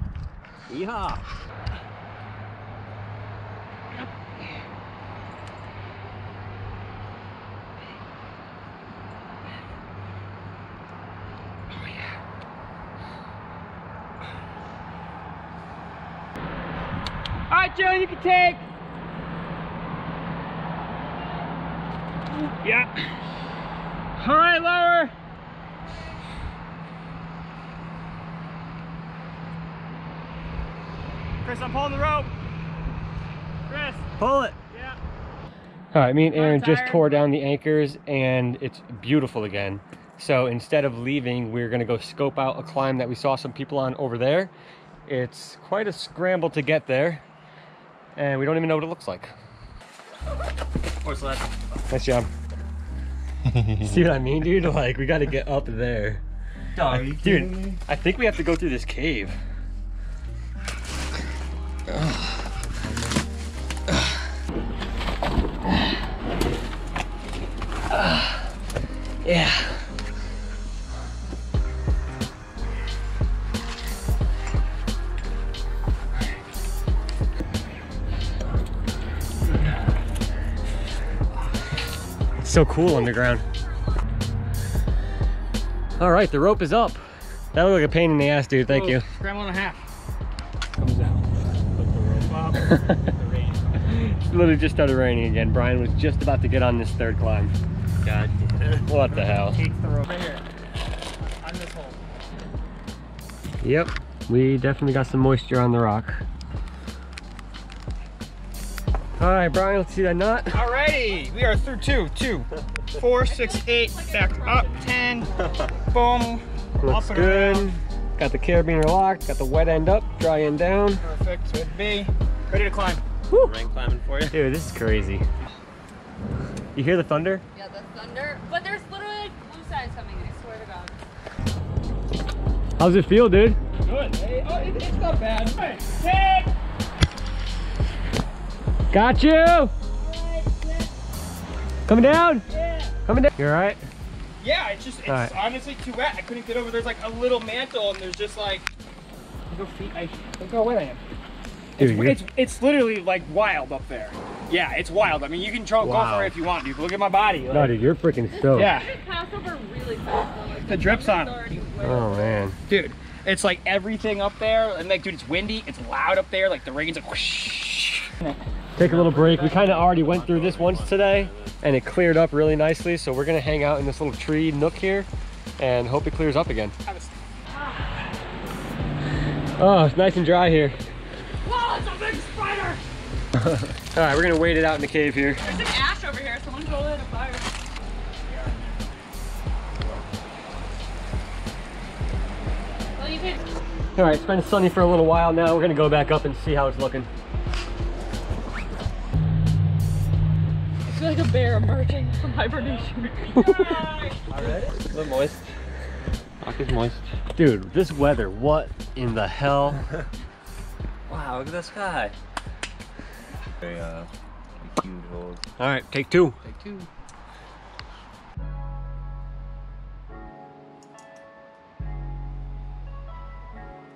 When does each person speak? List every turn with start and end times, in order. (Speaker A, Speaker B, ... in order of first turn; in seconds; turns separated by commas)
Speaker A: 0.7-1.2, Speaker B: 17.5-18.6, Speaker C: 24.2-24.8, Speaker B: 31.4-32.3, Speaker B: 33.7-34.1, Speaker C: 34.2-34.5, Speaker B: 34.7-35.0, Speaker C: 35.9-44.5, Speaker B: 36.3-37.2, Speaker C: 45.0-47.2, Speaker C: 48.1-49.3, Speaker A: 51.0-51.8, Speaker C: 51.9-52.3, Speaker C: 53.8-56.2, Speaker A: 56.8-57.8, Speaker C: 56.8-59.4, Speaker C: 67.9-68.4, Speaker C: 69.2-69.8, Speaker C: 82.4-83.4, Speaker C: 86.0-87.0, Speaker C: 87.5-89.0, Speaker B: 88.7-89.8, Speaker B: 90.8-94.0, Speaker C: 93.9-97.5, Speaker A: 98.0-99.3, Speaker C: 98.8-99.6, Speaker B: 99.3-100.4, Speaker B: 101.4-102.0, Speaker C: 103.6-106.2, Speaker C: 109.2-110.6, Speaker B: 110.5-117.7, Speaker D: 113.2-115.7, Speaker C: 116.8-121.0, Speaker B: 121.0-123.0, Speaker C: 123.3-123.5, Speaker A: 123.3-124.4, Speaker C: 124.3-125.2, Speaker C: 126.7-127.4, Speaker D: 127.5-130.9, Speaker C: 132.8-133.6, Speaker B: 133.8-136.5, Speaker C: 138.9-139.7, Speaker B: 140.0-140.9, Speaker C: 141.9-142.4, Speaker B: 142.5-142.9, Speaker C: 143.1-143.8, Speaker B: 144.4-148.7, Speaker C: 145.1-145.3, Speaker B: 149.5-151.0, Speaker B: 151.8-157.7, Speaker C: 151.8-152.2, Speaker C: 155.8-156.3, Speaker C: 157.5-158.7, Speaker D: 158.3-162.5, Speaker B: 158.5-158.9, Speaker B: 160.7-161.4, Speaker C: 161.8-162.6, Speaker B: 162.7-168.4, Speaker C: 168.8-175.1, Speaker A: 168.8-171.6, Speaker C: 175.6-176.7, Speaker B: 176.8-177.2, Speaker C: 179.6-180.8, Speaker D: 181.4-182.8, Speaker C: 183.9-185.4, Speaker D: 185.4-187.5, Speaker B: 188.2-189.1, Speaker D: 193.0-193.4, Speaker C: 193.9-197.1, Speaker D: 200.8-203.7, Speaker B: 202.5-204.7, Speaker A: 204.3-205.4, Speaker A: 206.4-207.0, Speaker C: 207.3-209.8, Speaker A: 211.1-212.1, Speaker A: 213.6-214.1, Speaker A: 214.6-215.4, Speaker C: 215.6-216.4, Speaker A: 216.5-216.9